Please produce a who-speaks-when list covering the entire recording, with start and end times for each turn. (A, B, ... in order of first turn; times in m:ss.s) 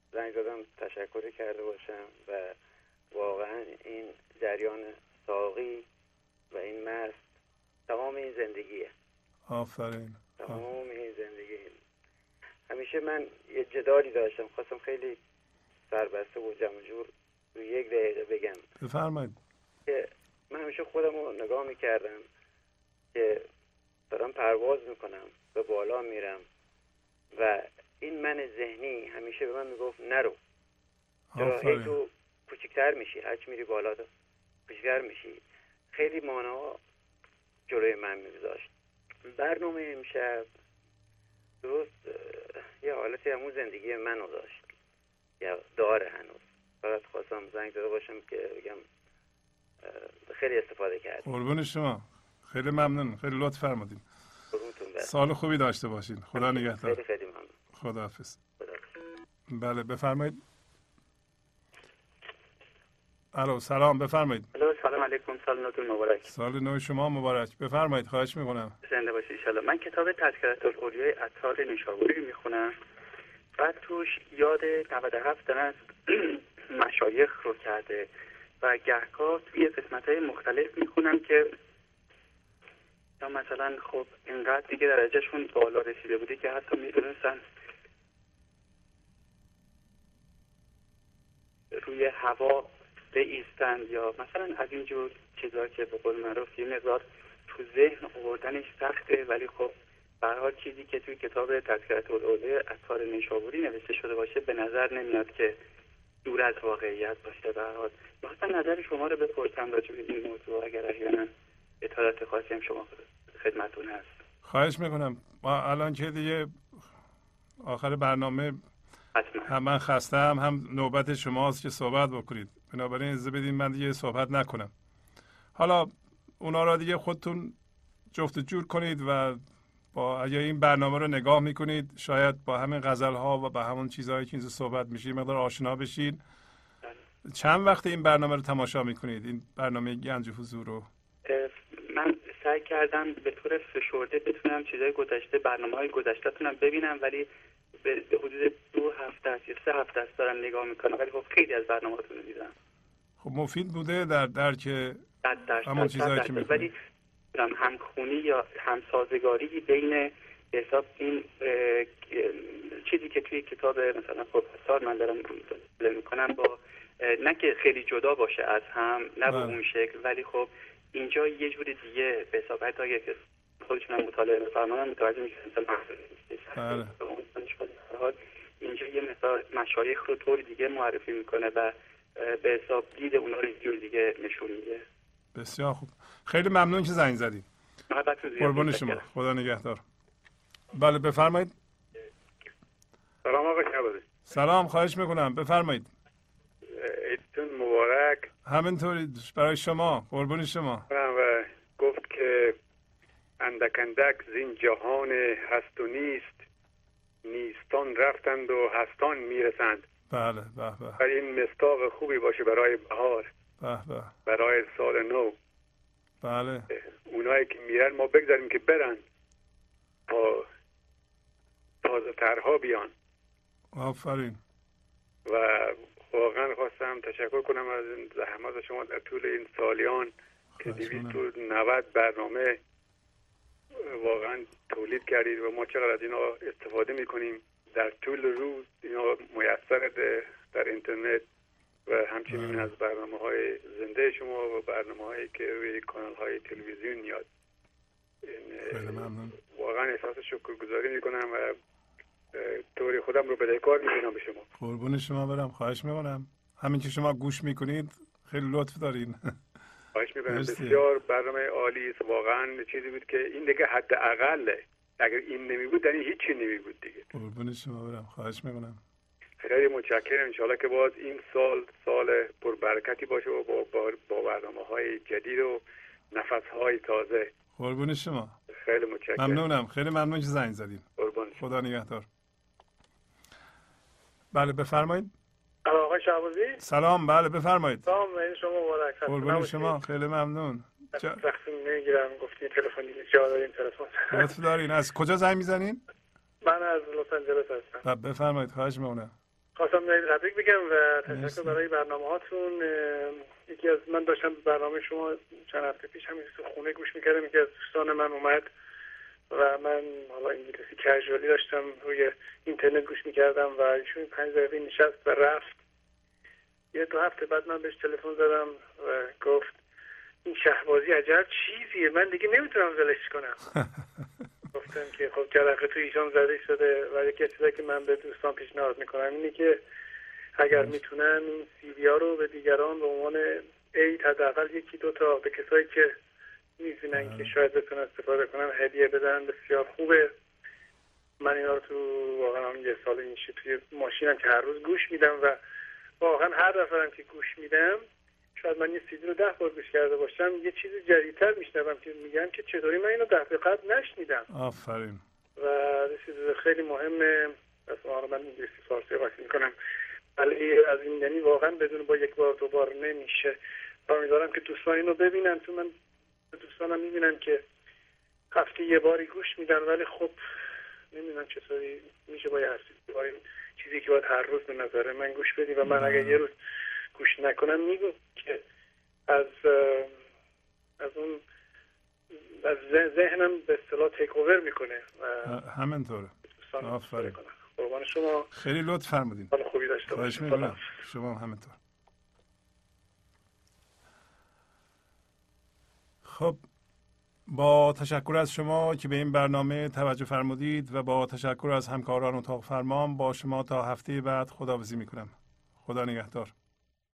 0:00.1-0:02.6 A
0:03.1-0:05.8 A
0:06.5-0:07.2 A
0:07.9-0:08.9 A
0:09.5-0:10.6 B
0:10.4-0:11.8 A
0:12.7-0:15.2 A
0:15.9-0:18.6 A
0:18.8-0:19.4 B
0:19.9-0:22.2 A
0:23.1-0:23.5 A
0:24.1-0:26.4 A
0:27.3-0:30.4 A
0:31.3-0:32.0 B
0:31.4-0:34.1 A
0:34.7-0:36.8 A
0:37.7-0:38.7 A
0:39.3-0:40.5 A
0:41.6-0:44.7 A
0:45.4-0:48.8 A
0:49.8-0:51.3 A
0:51.2-0:54.0 B
0:54.5-0:55.1 A
0:55.0-0:57.0 B
0:56.4-0:57.5 A
0:57.7-0:58.4 B
0:59.5-1:00.4 B
1:03.3-1:04.5 B
1:04.5-1:06.3 C
1:06.3-1:08.8 B
1:08.8-1:12.7 C
1:13.6-1:18.1 C
1:18.6-1:21.5 C
1:23.2-1:27.4 C
1:31.7-1:45.6 C
1:46.2-1:51.3 C
1:51.8-1:54.1 C
1:54.4-1:56.9 B
1:57.6-1:58.6 B
1:59.2-1:59.5 C
1:59.5-2:04.7 B
2:05.6-2:07.6 B
2:08.1-2:09.4 B
2:09.9-2:16.2 B
2:17.3-2:20.9 B
2:21.2-2:27.3 C
2:27.8-2:32.5 C
2:33.2-2:35.0 B
2:35.2-2:36.8 C
2:35.6-2:36.7 B
2:37.3-3:04.8 C
2:49.3-2:49.6 B
2:56.6-2:56.9 B
3:05.4-3:07.5 B
3:07.9-3:09.1 C
3:08.4-3:09.8 B
3:10.7-3:11.5 B
3:13.2-3:14.1 D
3:14.3-3:15.9 B
3:16.7-3:18.3 D
3:18.4-3:20.9 B
3:20.9-3:22.6 D
3:23.4-3:26.4 D
3:27.2-3:29.8 D
3:30.1-3:31.0 B
3:31.0-3:33.3 D
3:33.6-3:34.1 B
3:34.3-3:35.4 D
3:36.2-3:36.7 B
3:36.8-3:39.0 D
3:40.1-3:40.5 D
3:41.8-3:42.9 D
3:43.7-3:44.4 B
3:45.3-3:50.1 D
3:50.6-3:51.2 B
3:50.6-3:52.6 D
3:53.8-4:01.2 D
4:01.9-4:07.3 D
4:02.3-4:02.7 B
4:08.2-4:11.6 D
4:08.6-4:09.4 B
4:12.3-4:14.5 D
4:14.6-4:19.3 B
4:20.0-4:27.0 D
4:20.3-4:20.8 B
4:27.1-4:28.8 B
4:29.4-4:37.3 D
4:37.6-4:38.4 B
4:38.6-4:39.4 D
4:39.2-4:40.8 B
4:41.0-4:41.4 D
4:41.4-4:42.1 B
4:44.3-4:45.1 B
4:45.6-4:46.6 E
4:46.6-4:47.9 B
4:47.8-4:49.8 E
4:49.1-4:51.2 B
4:51.0-4:54.4 E
4:54.1-4:55.8 B
4:56.4-4:57.8 E
4:57.8-4:59.1 B
4:59.6-5:08.5 E
5:01.1-5:01.6 B
5:09.3-5:15.6 E
5:16.7-5:19.5 E
5:20.2-5:23.4 E
5:24.5-5:29.6 E
5:30.4-5:36.0 E
5:30.5-5:30.8 B
5:36.6-5:40.1 E
5:36.9-5:37.3 B
5:41.2-5:45.4 E
5:46.0-5:54.3 E
5:54.3-5:55.0 B
5:55.4-5:59.6 E
6:00.2-6:05.7 E
6:06.3-6:07.4 E
6:08.3-6:10.2 E
6:10.9-6:16.3 E
6:15.6-6:16.2 B
6:16.9-6:18.4 E
6:19.1-6:20.0 E
6:20.8-6:21.2 E
6:22.4-6:25.4 E
6:25.2-6:27.2 B
6:26.4-6:28.3 E
6:28.3-6:29.3 B
6:29.3-6:30.6 E
6:29.9-6:31.6 B
6:36.0-6:36.4 B
6:37.3-6:46.3 B